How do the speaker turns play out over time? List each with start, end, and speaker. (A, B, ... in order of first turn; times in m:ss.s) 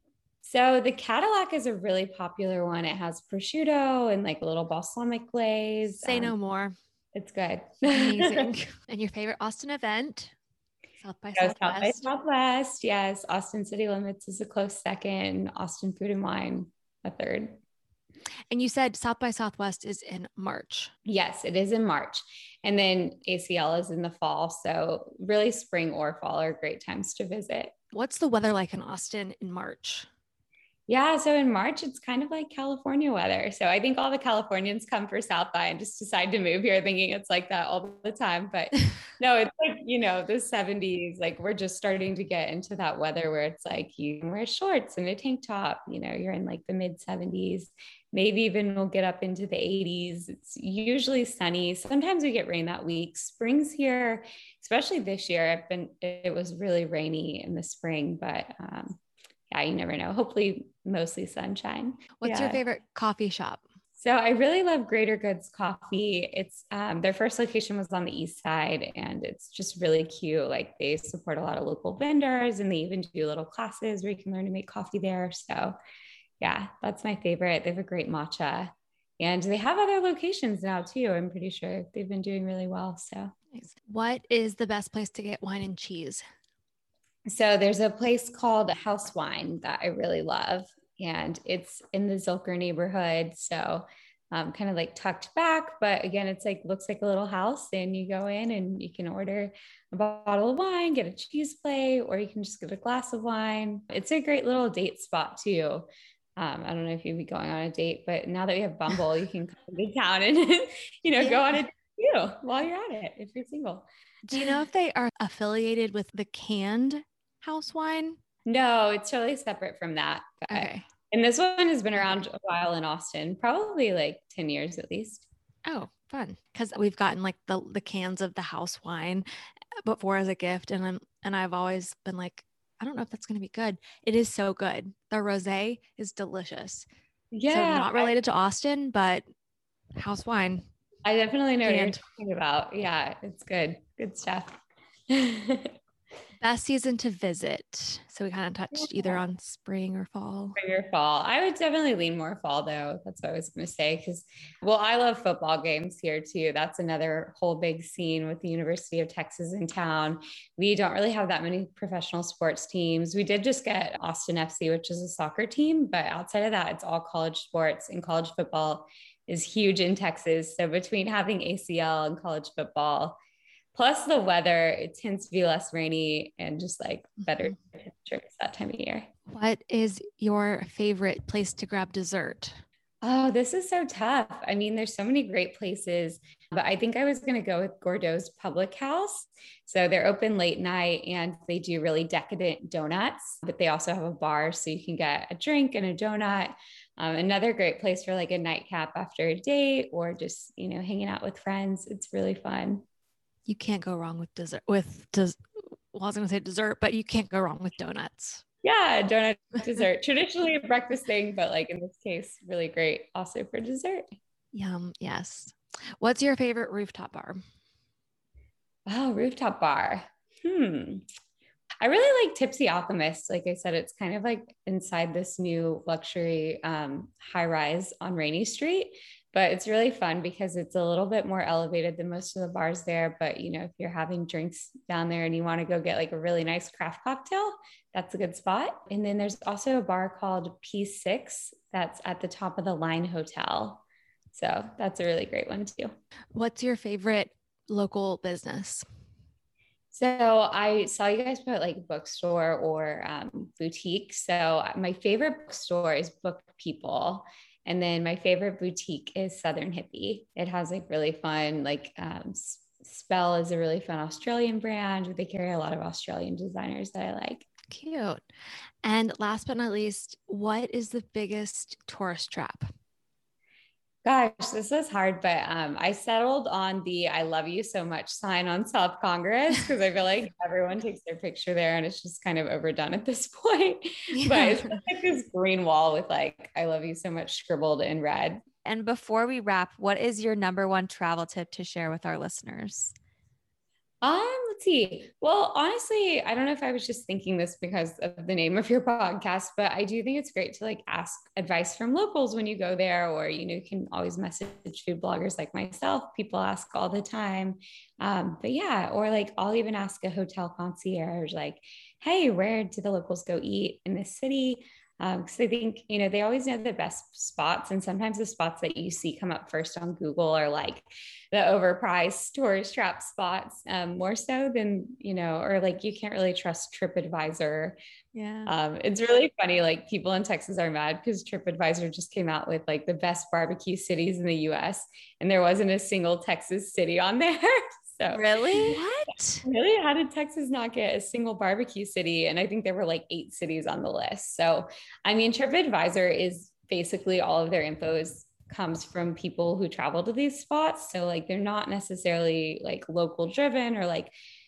0:00.4-0:06.3 A
0:06.0-0:06.8 B
0:07.1-0:08.5 A
0:07.8-0:10.3 B
0:11.0-0:12.0 B
0:11.4-0:17.6 A
0:18.5-0:20.9 B
0:21.0-0:27.7 A
0:27.9-0:30.1 B
0:30.9-0:59.0 A
0:59.5-1:02.6 A
1:02.2-1:03.6 B
1:04.0-1:15.8 A
1:16.4-1:23.3 A
1:23.5-1:26.2 B
1:27.3-1:54.6 A
1:51.2-1:51.5 B
1:54.3-1:58.2 B
1:58.4-2:05.2 A
2:00.5-2:00.8 B
2:05.6-2:09.2 B
2:09.8-2:16.9 B
2:17.3-2:18.1 A
2:17.5-2:19.2 B
2:19.9-2:20.6 B
2:21.0-2:25.7 A
2:21.6-2:22.0 B
2:26.4-2:30.6 B
2:30.6-2:53.2 A
2:53.7-2:59.1 A
2:59.3-3:02.6 B
3:03.0-3:22.8 A
3:23.5-3:28.4 B
3:28.6-3:34.0 A
3:34.5-3:37.4 B
3:38.8-3:41.0 A
3:41.8-4:05.9 A
4:06.3-4:08.8 B
4:09.9-4:27.4 A
4:27.7-4:28.2 B
4:28.8-4:32.7 B
4:34.0-4:48.4 A
4:44.1-4:44.8 B
4:48.6-4:52.9 C
4:54.0-5:27.8 A
5:28.1-5:28.5 C
5:28.4-5:38.8 A
5:38.1-5:38.9 C
5:39.4-5:54.1 A